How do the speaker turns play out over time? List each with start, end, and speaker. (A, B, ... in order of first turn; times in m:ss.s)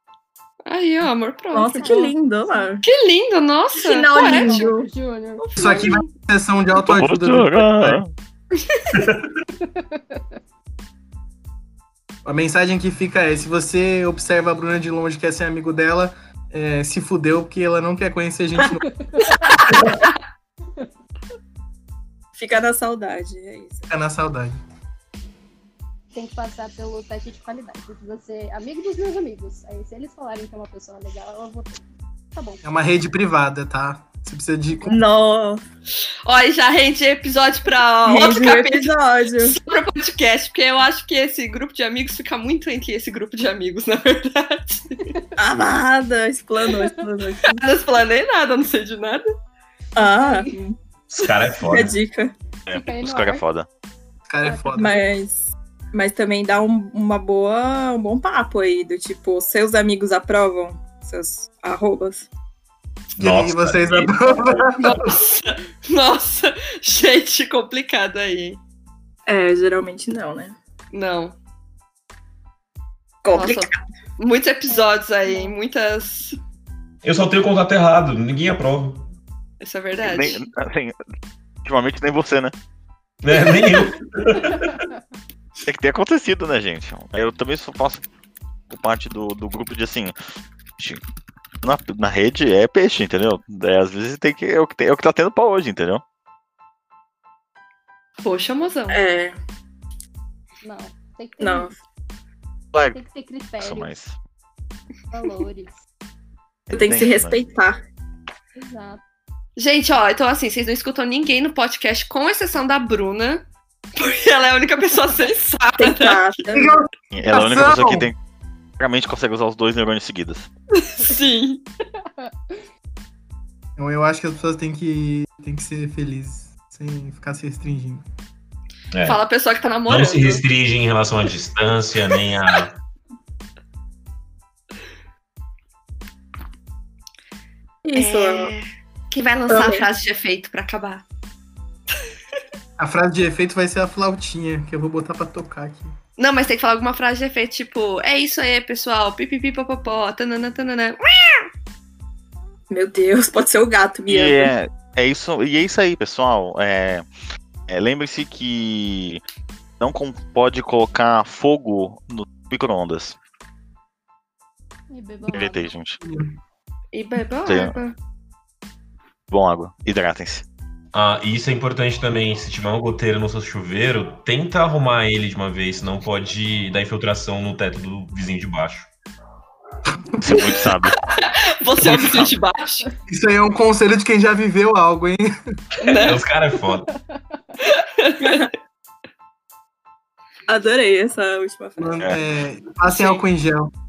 0:00.7-0:01.9 A
0:01.5-0:02.8 B
0:01.7-0:02.7 C
0:02.8-0:04.7 A
0:03.8-0:04.9 B
0:04.1-0:05.8 C
0:05.4-0:06.1 A
0:05.6-0:08.0 D
0:06.8-0:08.1 E
0:08.9-0:09.4 F
0:09.6-0:10.2 C
0:12.2-0:18.9 D
0:18.8-0:19.9 C
0:22.4-0:23.9 B
0:23.9-0:24.6 D
0:26.1-0:31.8 C
0:32.3-0:32.6 C
0:32.6-0:35.1 D
0:34.9-0:35.6 B
0:36.2-0:45.1 A
0:38.1-0:39.6 B
0:45.4-0:47.6 B
0:47.5-0:49.2 A
0:50.0-0:50.8 B
0:50.0-0:50.5 C
0:51.1-0:52.0 F
0:51.6-0:52.3 B
0:52.7-0:53.7 E
0:52.7-0:53.4 C
0:54.3-0:55.0 D
0:54.4-0:55.1 C
0:54.8-1:02.3 B
1:03.1-1:04.8 F
1:03.2-1:05.1 D
1:04.8-1:08.6 A
1:09.3-1:10.6 B
1:10.9-1:11.4 A
1:13.2-1:13.8 B
1:13.3-1:16.4 A
1:14.7-1:15.6 C
1:17.0-1:19.1 F
1:19.6-1:20.5 A
1:20.0-1:21.0 E
1:21.6-1:22.5 E
1:23.2-1:24.8 F
1:25.6-1:28.0 E
1:28.7-1:30.1 E
1:31.6-1:36.0 E
1:38.2-1:39.0 A
1:38.9-1:39.4 B
1:40.6-1:41.7 C
1:41.4-1:41.7 B
1:42.9-1:43.9 C
1:43.6-1:44.2 E
1:45.1-1:45.8 C
1:46.7-1:47.4 E
1:46.7-1:47.8 B
1:48.6-1:49.0 C
1:49.6-1:53.4 A
1:54.0-1:56.4 A
1:55.8-1:56.9 B
1:56.5-1:58.1 D
1:57.1-1:58.2 E
1:58.8-2:00.5 E
2:00.8-2:01.6 A
2:02.2-2:02.6 C
2:03.8-2:08.0 D
2:08.9-2:09.2 F
2:09.0-2:10.4 A
2:09.9-2:12.8 F
2:17.8-2:18.5 B
2:18.0-2:21.0 A
2:19.5-2:19.8 B
2:22.8-2:25.9 D
2:26.2-2:31.5 A
2:32.7-2:34.5 B
2:34.1-2:37.1 E
2:37.7-2:39.2 E
2:39.8-2:43.2 E
2:44.9-2:45.7 C
2:45.3-2:46.0 E
2:46.0-2:46.3 D
2:46.9-2:48.0 A
2:47.5-2:47.8 E
2:49.3-2:50.4 E
2:50.9-2:58.9 F
3:00.2-3:01.0 E
3:00.8-3:02.9 A
3:01.8-3:02.4 E
3:03.1-3:05.3 D
3:05.8-3:06.2 A
3:06.0-3:06.9 F
3:06.9-3:07.4 C
3:07.6-3:08.5 A
3:10.5-3:11.9 B
3:11.8-3:13.7 D
3:12.9-3:13.2 A